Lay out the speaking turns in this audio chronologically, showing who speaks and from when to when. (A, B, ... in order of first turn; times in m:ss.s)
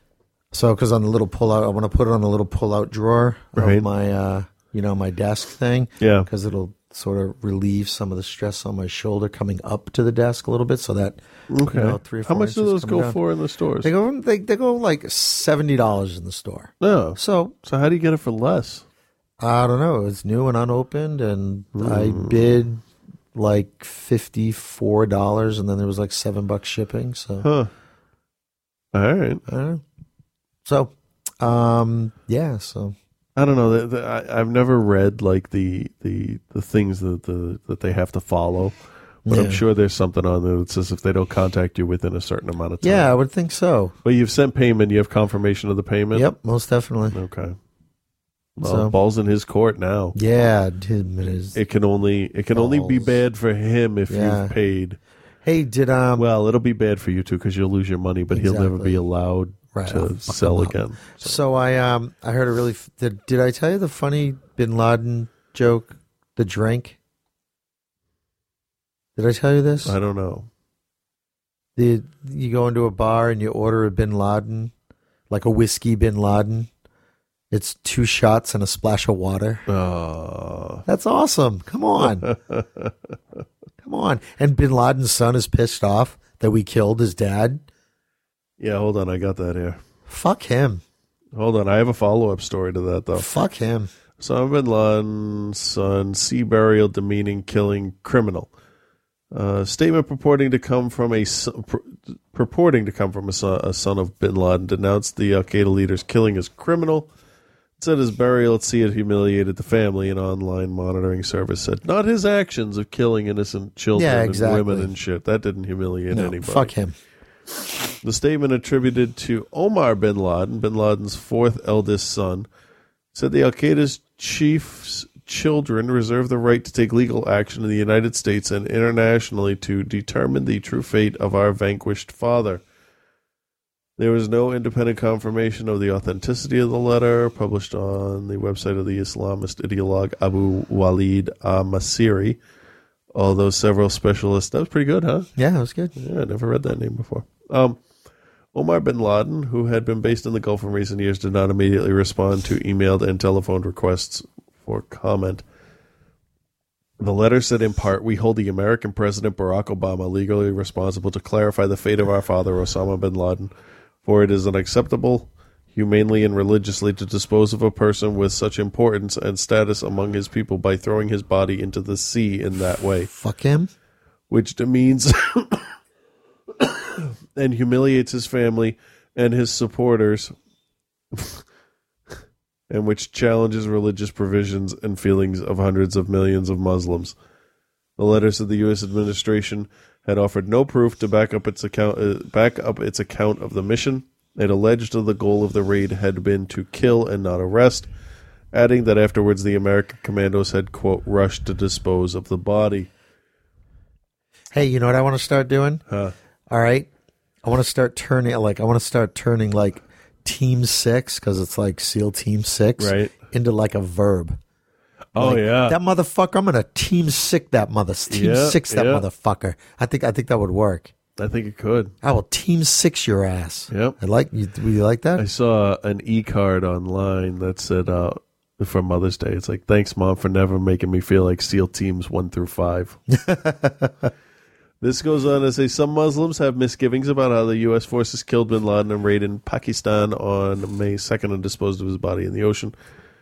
0:00.5-0:13.2 A
0:03.6-0:03.8 B
0:06.0-0:06.3 B
0:11.5-0:13.9 B
0:13.8-0:17.6 A
0:16.8-0:18.8 B
0:19.4-0:22.8 A
0:21.8-0:22.5 B
0:23.3-0:27.5 A
0:27.4-0:27.7 B
0:28.9-0:29.4 B
0:29.5-0:29.8 A
0:30.6-0:33.0 A
0:33.4-0:38.7 B
0:39.3-0:39.6 A
0:39.3-0:43.2 B
0:42.8-0:44.0 A
0:44.0-0:46.3 B
0:46.1-0:47.2 A
0:47.1-0:47.6 B
0:48.6-0:50.2 B
0:48.6-0:48.9 A
0:50.2-0:51.6 A
0:51.6-0:55.0 B
0:52.5-0:53.2 A
0:54.1-0:54.5 A
0:55.4-0:56.2 A
0:56.2-1:01.4 B
0:58.3-0:59.0 A
0:59.7-1:07.0 A
1:09.2-1:10.0 A
1:09.8-1:10.5 B
1:11.8-1:14.7 A
1:15.3-1:16.7 A
1:17.5-1:19.6 A
1:19.7-1:20.8 B
1:20.9-1:22.3 A
1:22.0-1:22.9 B
1:23.8-1:27.6 A
1:28.6-1:29.8 B
1:30.1-1:30.8 A
1:31.4-1:33.3 B
1:33.1-1:33.9 A
1:34.2-1:38.5 B
1:39.3-1:47.1 B
1:47.8-1:56.7 B
1:54.0-1:54.9 A
1:56.1-1:57.0 A
1:58.0-2:02.5 B
2:03.1-2:12.6 B
2:14.0-2:22.4 B
2:23.1-2:25.3 B
2:25.4-2:25.9 A
2:26.0-2:27.8 B
2:28.5-2:35.4 B
2:37.0-2:43.5 B
2:44.0-2:53.1 B
2:53.1-2:53.7 A
2:54.3-2:55.6 B
2:56.6-3:00.3 B
3:01.1-3:01.4 B
3:02.7-3:07.2 B
3:08.0-3:17.9 B
3:18.5-3:22.9 B
3:24.5-3:25.8 A
3:25.9-3:26.1 B
3:26.5-3:26.9 A
3:27.4-3:34.4 A
3:32.8-3:33.2 B
3:35.2-3:35.8 B
3:35.2-3:40.9 A
3:38.1-3:39.0 B
3:41.2-3:41.9 B
3:42.0-3:45.2 A
3:43.7-3:44.0 B
3:45.2-3:53.0 B
3:53.1-3:54.1 A
3:54.8-4:02.7 B